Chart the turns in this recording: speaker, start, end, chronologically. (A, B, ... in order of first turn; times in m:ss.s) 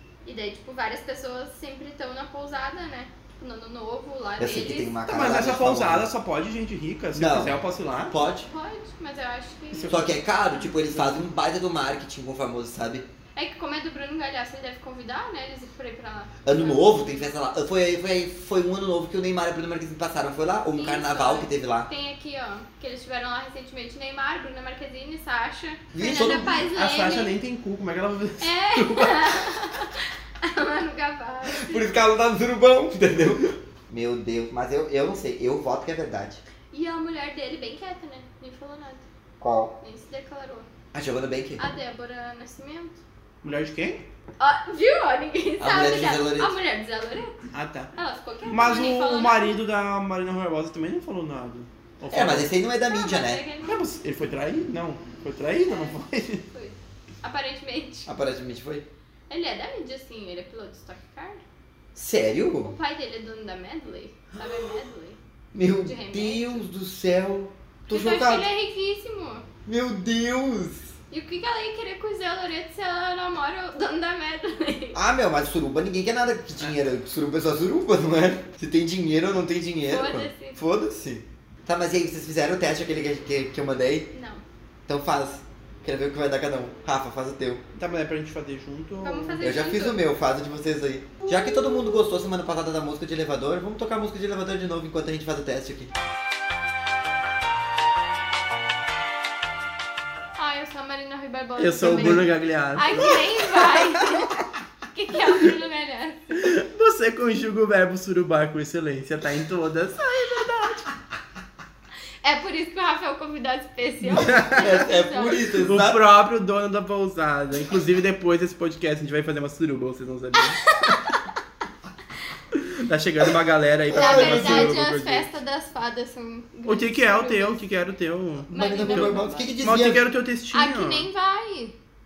0:00.2-0:05.0 A
0:04.4-0:06.1 B
0:05.1-0:08.1 C
0:07.1-0:08.5 B
0:08.4-0:10.0 A
0:09.7-0:10.2 C
0:09.9-0:13.0 B
0:10.7-0:11.2 C
0:13.4-0:17.3 A
0:16.4-0:21.9 B
0:20.8-0:27.4 A
0:25.9-0:26.7 B
0:26.7-0:29.7 C
0:28.4-0:31.9 A
0:31.5-0:36.4 B
0:36.7-0:39.0 A
0:39.4-0:39.8 B
0:39.8-0:40.7 A
0:40.9-0:41.6 B
0:41.6-0:43.0 A
0:43.4-0:44.0 C
0:44.4-0:47.4 A
0:45.6-0:46.5 B
0:47.5-0:47.9 C
0:47.9-0:49.6 A
0:48.5-0:52.5 C
0:52.1-0:53.4 B
0:52.9-0:53.8 A
0:53.6-0:56.4 C
0:55.6-0:56.0 A
0:56.5-0:58.1 A
0:58.1-0:58.9 B
0:59.3-1:01.4 A
1:01.9-1:02.8 B
1:02.6-1:05.2 A
1:05.5-1:08.5 B
1:05.8-1:06.7 A
1:07.9-1:09.5 A
1:09.6-1:10.9 B
1:11.1-1:15.0 A
1:14.9-1:24.1 B
1:19.9-1:20.6 A
1:24.1-1:24.4 A
1:24.9-1:27.6 B
1:27.8-1:29.5 C
1:29.0-1:30.0 A
1:29.4-1:35.9 B
1:31.3-1:31.8 A
1:40.4-1:44.4 A
1:41.6-1:44.4 C
1:41.8-1:42.2 B
1:44.9-1:46.5 A
1:46.4-1:50.9 C
1:52.2-1:55.5 A
1:54.1-1:54.7 C
1:54.2-1:56.0 B
1:55.6-2:00.7 C
2:00.6-2:01.2 A
2:02.5-2:05.3 C
2:03.9-2:04.8 B
2:03.9-2:07.6 A
2:06.6-2:11.1 C
2:08.5-2:10.0 B
2:08.5-2:09.5 A
2:10.5-2:11.8 A